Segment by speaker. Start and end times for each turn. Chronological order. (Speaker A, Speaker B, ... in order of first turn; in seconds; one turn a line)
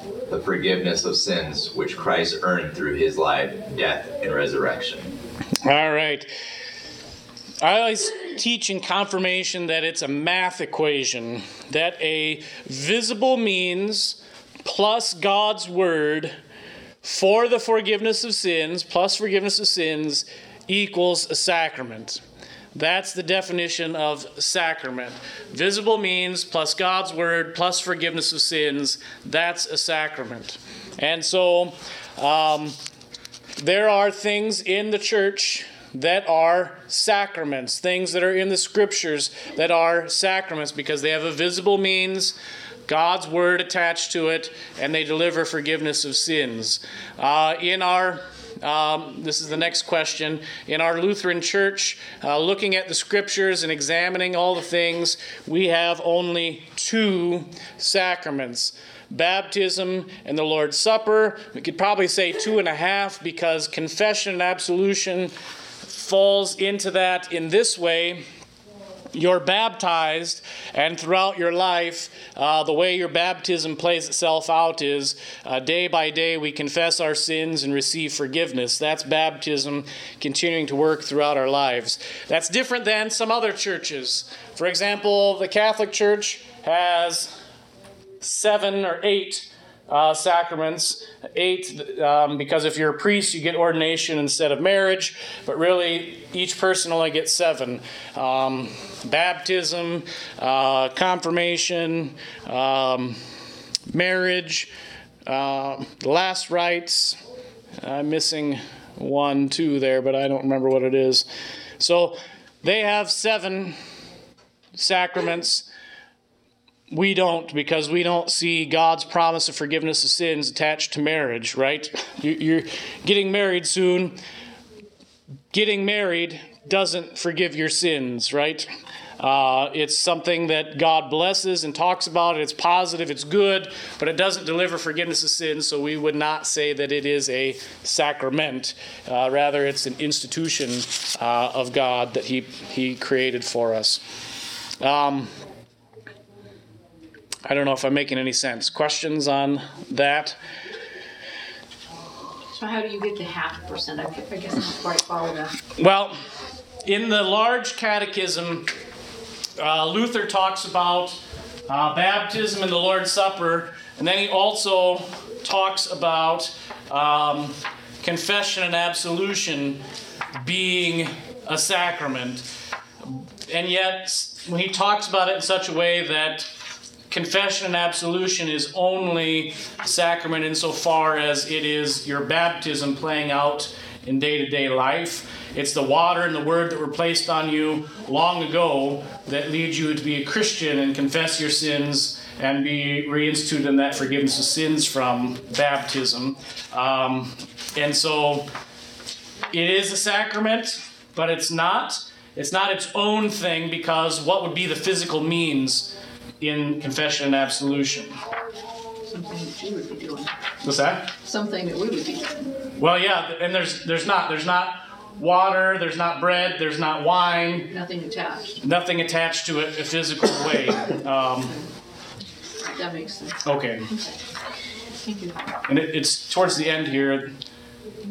Speaker A: 0.3-5.1
Speaker B: 5.6-6.3
Speaker B: 7.6-16.4
Speaker B: 17.0-22.2
Speaker B: 22.7-32.8
Speaker B: 33.6-68.2
Speaker B: 69.1-87.3
Speaker B: 88.2-103.2
Speaker B: 103.9-104.7
Speaker B: 105.2-107.2
Speaker B: 107.8-111.3
Speaker B: 111.8-113.8
Speaker B: 114.7-115.7
Speaker B: 116.9-124.2
Speaker B: 125.5-128.7
Speaker B: 129.2-144.0
Speaker B: 144.8-145.3
Speaker B: 147.4-150.4
Speaker C: 152.5-155.6
Speaker B: 155.8-156.2
Speaker B: 156.8-158.7
Speaker B: 159.6-169.8
Speaker B: 170.3-172.4
Speaker B: 173.0-176.5
Speaker B: 177.1-198.5
Speaker B: 199.5-208.1
Speaker C: 209.1-210.3
Speaker B: 210.6-211.1
Speaker C: 211.2-212.6
Speaker B: 212.8-217.7
Speaker C: 217.7-218.6
Speaker B: 218.6-221.6
Speaker C: 222.6-223.4
Speaker B: 223.4-223.9
Speaker C: 223.9-224.2
Speaker C: 225.0-225.4
Speaker B: 225.7-227.3